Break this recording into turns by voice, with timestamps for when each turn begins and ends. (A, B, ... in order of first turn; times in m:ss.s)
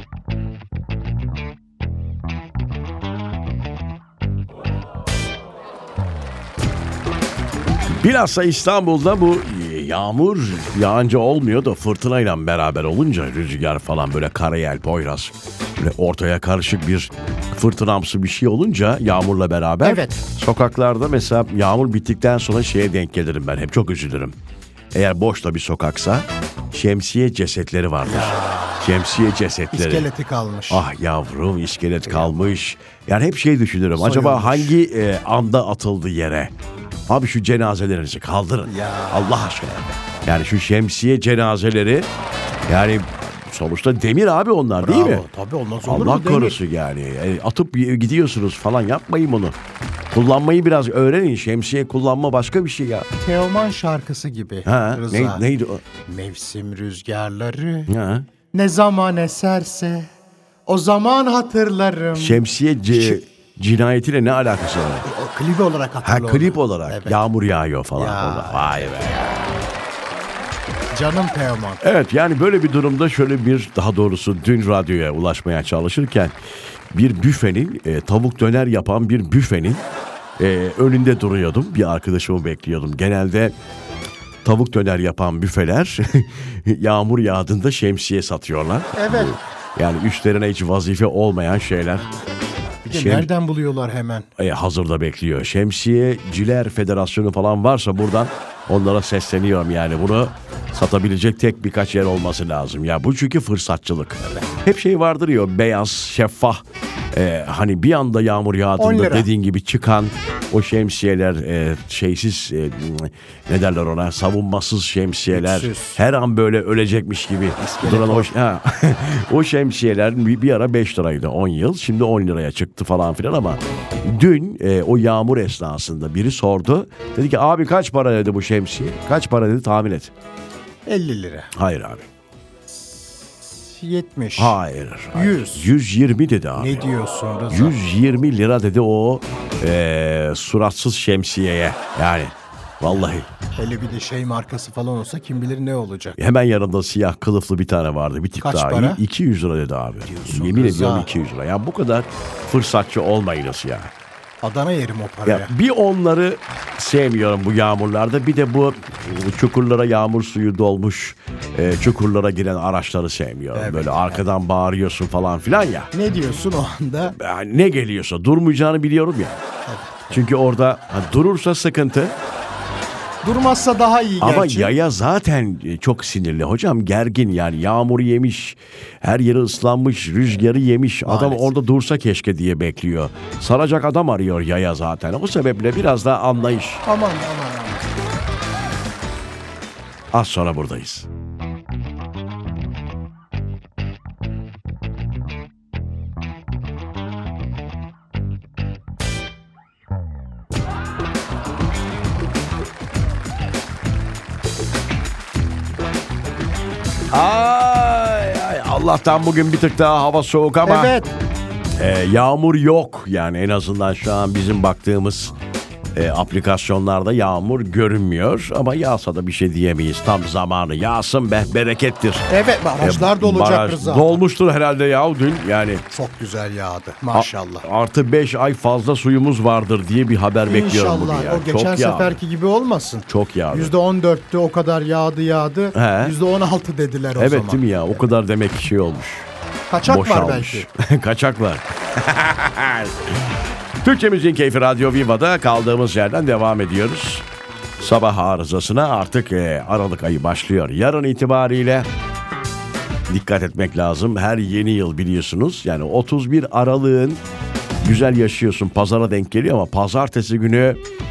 0:07.9-0:24.4 A
0:19.8-0:20.2 B
0:24.9-0:30.1 A
0:28.0-0:28.9 B
0:29.7-0:30.9 B
0:30.7-0:36.5 A
0:32.1-0:32.4 B
0:33.9-0:34.8 B
0:37.1-0:42.1 A
0:38.6-0:39.5 B
0:42.7-0:45.2 A
0:44.8-0:46.6 B
0:45.8-0:49.6 A
0:50.1-0:53.1 A
0:53.2-0:55.4 B
0:54.6-0:55.8 A
0:56.0-0:57.9 B
0:57.9-0:58.3 A
0:58.5-1:00.1 B
1:00.7-1:03.2 B
1:02.2-1:05.1 A
1:05.0-1:07.2 B
1:06.0-1:09.3 A
1:08.0-1:09.0 B
1:10.9-1:11.8 B
1:11.8-1:16.3 A
1:16.9-1:19.8 A
1:20.4-1:23.5 A
1:24.4-1:32.1 A
1:28.9-1:29.4 B
1:32.8-1:33.3 A
1:32.9-1:34.3 B
1:34.4-2:10.1 A
1:44.2-1:44.5 B
1:48.8-1:49.3 B
1:55.3-1:56.0 B
1:57.6-1:58.3 B
2:10.9-2:11.5 B
2:11.5-2:12.1 A
2:12.7-2:14.6 B
2:14.4-2:16.9 A
2:15.1-2:15.7 B
2:16.6-2:17.8 B
2:17.5-2:23.3 A
2:23.5-2:26.2 B
2:26.2-2:33.9 A
2:28.4-2:29.0 B
2:30.0-2:31.1 B
2:34.4-2:35.5 B
2:35.3-2:45.9 A
2:43.5-2:44.2 B
2:45.9-2:47.2 B
2:47.1-2:49.4 A
2:49.7-2:50.3 B
2:50.1-2:52.2 A
2:53.2-2:54.8 B
2:54.2-3:06.8 A
3:01.0-3:01.5 B
3:06.8-3:07.8 B
3:10.1-3:11.1 A
3:27.1-3:31.0 A
3:30.6-3:31.1 B
3:31.8-3:35.4 A
3:36.0-3:42.3 A
3:42.3-3:44.2 B
3:42.8-3:45.8 A
3:45.9-3:47.7 B
3:47.1-3:52.2 A
3:50.4-3:58.0 B
3:53.1-3:53.7 A
3:55.7-3:56.2 A
3:57.2-3:59.3 A
3:59.7-4:00.7 B
3:59.8-4:03.2 A
4:03.8-4:07.2 A
4:07.8-4:11.9 A
4:13.1-4:17.2 A
4:17.8-4:20.8 A